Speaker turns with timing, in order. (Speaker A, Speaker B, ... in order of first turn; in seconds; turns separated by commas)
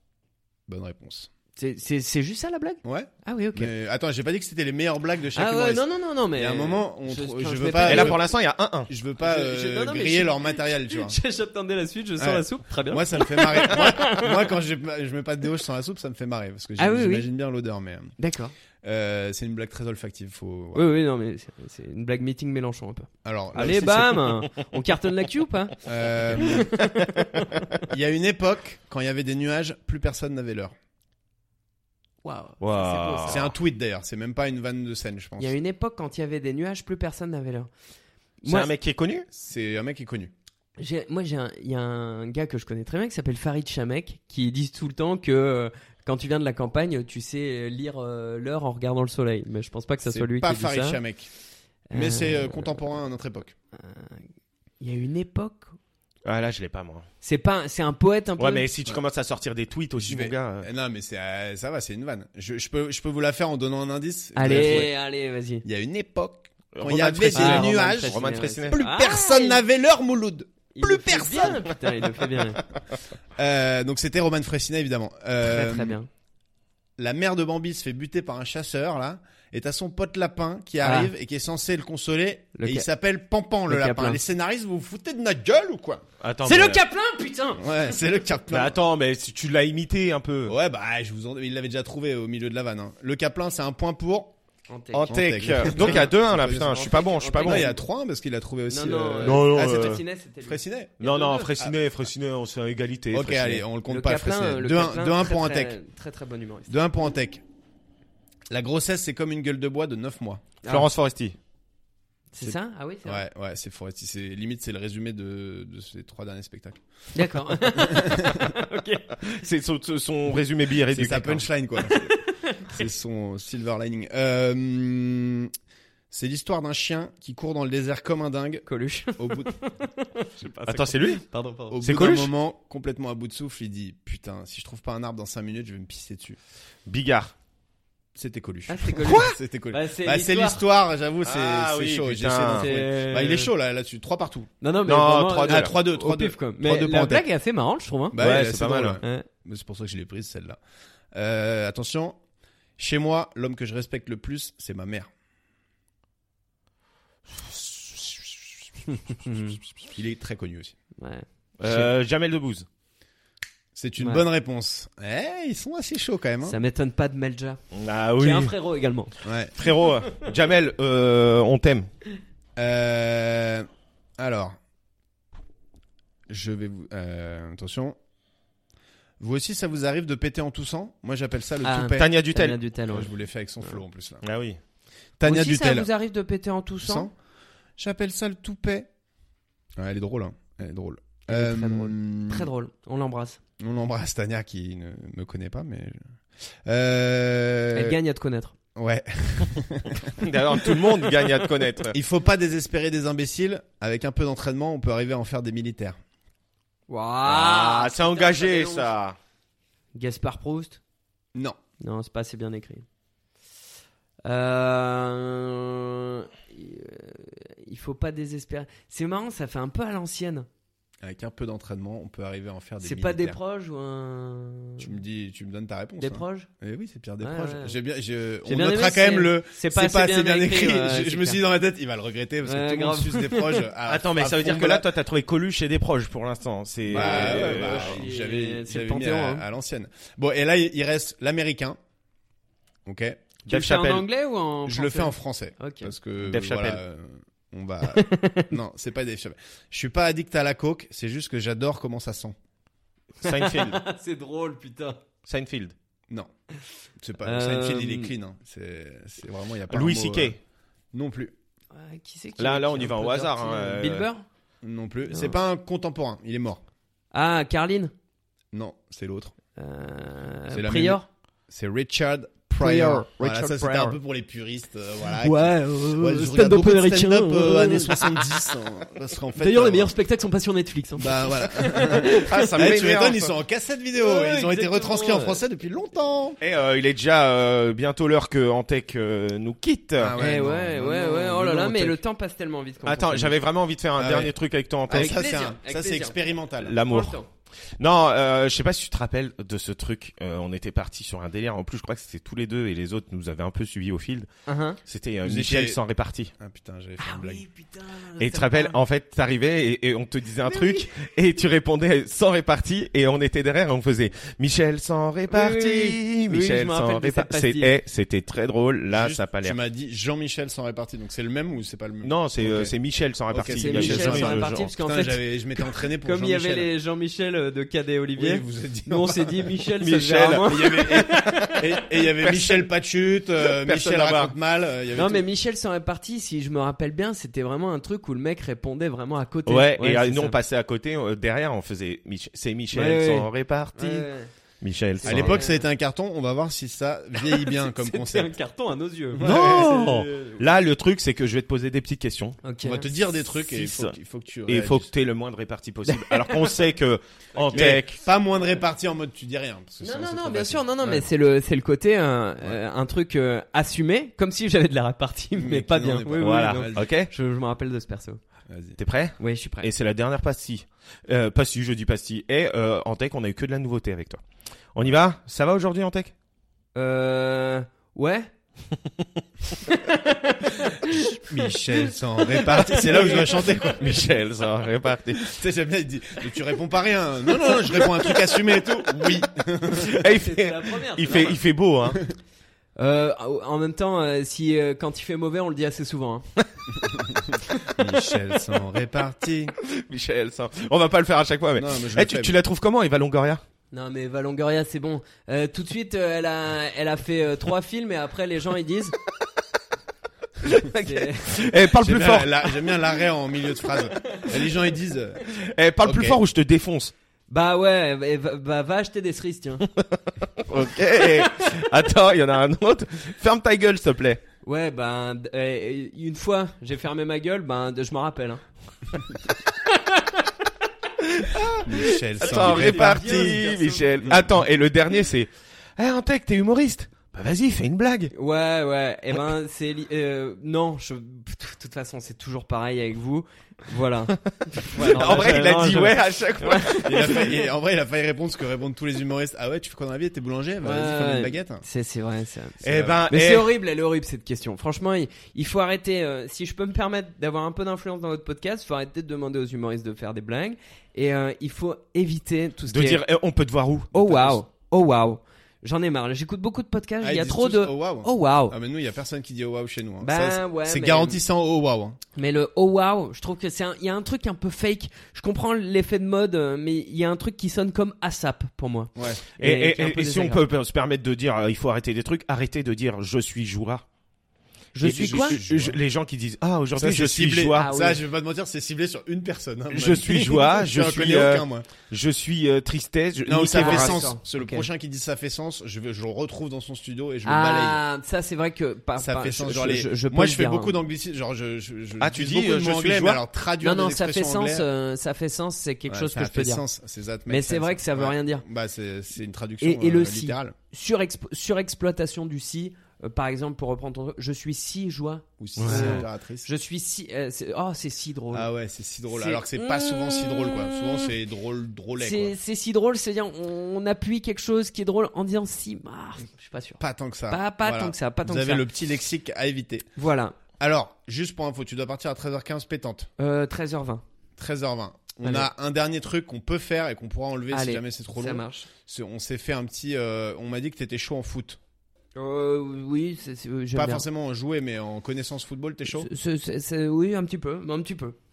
Speaker A: 0.7-1.3, Speaker B: 1.6-3.7, Speaker A: 2.8-8.3, Speaker B: 5.3-8.2, Speaker C: 7.8-8.9, Speaker A: 8.9-11.2, Speaker B: 9.2-14.5, Speaker A: 12.2-18.1, Speaker B: 16.8-17.3, Speaker B: 18.2-18.5, Speaker A: 18.8-20.9, Speaker B: 20.7-27.8, Speaker A: 23.2-24.4, Speaker A: 25.8-26.7, Speaker A: 27.9-30.8, Speaker B: 32.2-33.5, Speaker C: 32.6-33.5, Speaker A: 33.3-35.6, Speaker B: 35.4-37.7, Speaker B: 38.4-38.7, Speaker C: 38.5-39.3, Speaker A: 39.3-40.3, Speaker B: 40.8-51.0, Speaker A: 50.0-51.3, Speaker B: 51.9-52.8, Speaker A: 51.9-53.5, Speaker B: 53.8-54.2, Speaker B: 54.8-55.8, Speaker C: 56.2-57.1, Speaker B: 57.2-58.7, Speaker C: 58.4-60.7, Speaker A: 60.0-64.9, Speaker B: 64.3-65.7, Speaker C: 64.5-64.8, Speaker A: 65.6-71.7, Speaker C: 66.7-68.8, Speaker B: 67.3-69.6, Speaker B: 70.7-72.6, Speaker A: 73.4-76.0, Speaker B: 75.4-76.1, Speaker A: 77.0-86.0, Speaker B: 80.8-81.1, Speaker B: 82.5-82.9, Speaker B: 83.7-84.2, Speaker C: 86.2-86.8, Speaker B: 86.4-87.8, Speaker A: 87.6-88.8, Speaker C: 88.5-90.6, Speaker A: 90.5-94.3, Speaker B: 94.7-97.8, Speaker C: 94.9-97.7, Speaker A: 95.1-96.9, Speaker A: 97.4-101.0, Speaker B: 98.7-101.6, Speaker C: 99.2-100.0, Speaker C: 101.0-103.7, Speaker A: 103.1-105.8, Speaker B: 103.9-106.7, Speaker A: 106.7-107.4, Speaker A: 108.5-110.5, Speaker B: 110.6-110.9, Speaker C: 110.7-111.4, Speaker B: 112.3-113.2, Speaker A: 113.0-116.8, Speaker B: 117.1-119.4, Speaker A: 117.5-118.5, Speaker C: 119.3-121.5, Speaker A: 120.9-125.5, Speaker B: 121.8-122.8, Speaker A: 126.1-128.7, Speaker B: 128.7-131.8, Speaker A: 129.2-129.5, Speaker C: 130.7-131.2, Speaker A: 131.7-136.4, Speaker C: 131.8-132.3, Speaker C: 136.9-137.3, Speaker A: 138.2-144.5, Speaker B: 138.7-140.6, Speaker C: 139.0-139.4, Speaker C: 141.2-142.7, Speaker B: 142.6-143.5, Speaker B: 144.6-148.2, Speaker C: 144.9-145.7, Speaker A: 145.4-147.3, Speaker A: 148.1-150.6, Speaker C: 148.2-149.0, Speaker A: 151.1-152.2, Speaker A: 152.8-155.1, Speaker B: 158.9-159.6, Speaker A: 159.8-160.8, Speaker B: 161.0-161.3, Speaker C: 161.6-162.7, Speaker A: 163.8-166.6, Speaker B: 164.0-164.2, Speaker B: 166.4-167.6, Speaker C: 167.7-168.5, Speaker B: 168.2-169.1, Speaker A: 169.2-169.5, Speaker C: 169.6-171.9, Speaker B: 169.7-170.2, Speaker A: 172.6-174.6, Speaker A: 176.3-178.0, Speaker A: 179.2-182.1, Speaker B: 181.6-183.1, Speaker C: 182.0-182.6, Speaker A: 182.9-184.2, Speaker C: 184.2-184.6, Speaker A: 185.2-185.9, Speaker B: 185.2-187.1, Speaker A: 186.8-187.1, Speaker A: 187.8-188.9, Speaker A: 189.8-192.5, Speaker B: 191.3-193.4, Speaker A: 193.6-196.0, Speaker A: 196.7-198.0, Speaker B: 197.7-198.6, Speaker A: 198.8-200.8, Speaker C: 200.2-202.0, Speaker A: 201.9-206.0, Speaker B: 206.9-208.9, Speaker C: 207.3-209.2, Speaker B: 209.9-210.8, Speaker B: 211.8-212.9, Speaker B: 214.2-220.5, Speaker A: 221.0-223.4, Speaker B: 222.8-224.9, Speaker A: 224.8-234.9, Speaker B: 226.0-226.5, Speaker B: 227.2-227.8, Speaker B: 228.5-231.4, Speaker B: 232.4-233.7, Speaker C: 233.9-238.0, Speaker A: 236.9-241.8, Speaker B: 236.9-239.4, Speaker A: 242.9-243.2, Speaker C: 243.5-244.1, Speaker B: 243.5-245.9, Speaker A: 244.7-252.4, Speaker C: 246.2-246.8, Speaker B: 247.9-248.5, Speaker C: 253.2-253.8, Speaker B: 253.2-255.0, Speaker C: 255.3-255.7, Speaker A: 257.0-260.4, Speaker B: 257.2-258.1, Speaker C: 259.7-260.4, Speaker A: 260.9-261.3, Speaker B: 261.7-264.2, Speaker C: 262.4-264.1, Speaker A: 264.6-266.6, Speaker B: 265.1-265.4, Speaker B: 267.1-267.9, Speaker A: 268.5-269.3, Speaker B: 269.6-271.1, Speaker A: 270.5-279.9, Speaker B: 272.5-274.0, Speaker B: 275.1-278.2, Speaker B: 279.4-282.5, Speaker A: 281.0-286.4, Speaker C: 282.1-283.3, Speaker B: 284.0-285.4, Speaker C: 286.4-290.2, Speaker A: 290.0-292.0, Speaker B: 290.2-293.4, Speaker C: 292.9-295.2, Speaker A: 294.0-294.3, Speaker A: 294.9-296.8, Speaker B: 294.9-296.2, Speaker C: 296.6-297.2, Speaker B: 296.8-297.3, Speaker C: 297.8-304.3, Speaker B: 304.5-304.8, Speaker C: 304.9-306.3, Speaker A: 305.2-305.8, Speaker A: 306.4-307.4, Speaker B: 307.0-308.8, Speaker C: 308.2-319.6, Speaker B: 310.5-310.9, Speaker B: 315.3-317.7, Speaker A: 318.9-322.7, Speaker C: 322.0-324.7, Speaker A: 323.3-326.7, Speaker B: 323.5-331.6, Speaker A: 328.2-329.5, Speaker C: 329.8-330.6, Speaker A: 330.5-335.3, Speaker C: 332.2-332.7, Speaker C: 333.4-334.3, Speaker B: 334.9-340.4, Speaker C: 339.5-344.1, Speaker B: 342.7-344.3, Speaker C: 344.6-345.4, Speaker B: 345.0-345.6, Speaker A: 345.0-348.3, Speaker B: 347.2-350.4, Speaker A: 349.1-349.7, Speaker C: 349.2-352.4, Speaker B: 352.4-352.9, Speaker A: 352.6-354.9, Speaker C: 353.3-354.0, Speaker C: 354.5-358.0, Speaker B: 355.9-356.6, Speaker B: 357.4-357.8, Speaker A: 357.5-361.1, Speaker B: 359.8-368.2, Speaker A: 365.4-366.9, Speaker C: 366.2-367.1, Speaker A: 368.5-368.8, Speaker C: 368.8-374.2, Speaker B: 369.2-369.7, Speaker C: 374.8-376.1, Speaker B: 376.8-378.3, Speaker B: 379.6-383.7, Speaker A: 380.9-384.0, Speaker C: 383.2-385.4, Speaker A: 385.3-390.0, Speaker C: 389.8-392.0, Speaker B: 390.1-391.4, Speaker B: 392.8-396.3, Speaker A: 396.8-399.5, Speaker C: 399.6-403.4, Speaker A: 401.6-402.4, Speaker B: 403.7-409.0, Speaker B: 410.5-411.5, Speaker C: 410.5-412.5, Speaker A: 411.7-415.3, Speaker C: 415.4-416.9, Speaker A: 415.8-416.2, Speaker B: 417.3-419.7, Speaker C: 419.8-424.2, Speaker B: 421.0-421.4, Speaker B: 424.4-428.4, Speaker B: 429.5-430.3, Speaker C: 431.1-431.7, Speaker B: 431.6-434.1, Speaker A: 431.6-433.4, Speaker C: 432.2-438.1, Speaker B: 438.1-447.3, Speaker C: 444.7-447.3, Speaker A: 446.6-451.6, Speaker B: 450.6-463.0, Speaker A: 452.6-453.0, Speaker C: 452.6-453.6, Speaker C: 462.7-464.4, Speaker B: 463.9-468.6, Speaker A: 467.0-472.0, Speaker B: 470.0-471.2, Speaker B: 472.1-480.4, Speaker A: 479.0-479.2, Speaker C: 479.4-483.8, Speaker B: 484.7-485.4, Speaker A: 484.8-485.8, Speaker C: 484.8-487.7, Speaker A: 486.8-491.7, Speaker B: 487.5-488.0, Speaker C: 489.7-494.1, Speaker A: 493.3-497.8, Speaker B: 493.5-494.7, Speaker B: 497.2-500.8, Speaker A: 499.0-504.7, Speaker C: 502.0-503.2, Speaker B: 503.6-506.6, Speaker A: 505.9-510.6, Speaker B: 507.3-508.4, Speaker B: 509.6-518.5, Speaker A: 515.4-516.5, Speaker C: 515.6-516.0, Speaker A: 518.3-522.4, Speaker B: 519.1-521.1, Speaker B: 522.0-528.7, Speaker A: 526.8-529.9, Speaker B: 530.0-530.4, Speaker A: 530.6-533.1, Speaker B: 533.2-534.0, Speaker A: 534.4-541.6, Speaker B: 535.2-535.5, Speaker B: 537.5-538.7, Speaker B: 542.1-544.1, Speaker A: 543.7-546.1, Speaker B: 545.9-548.2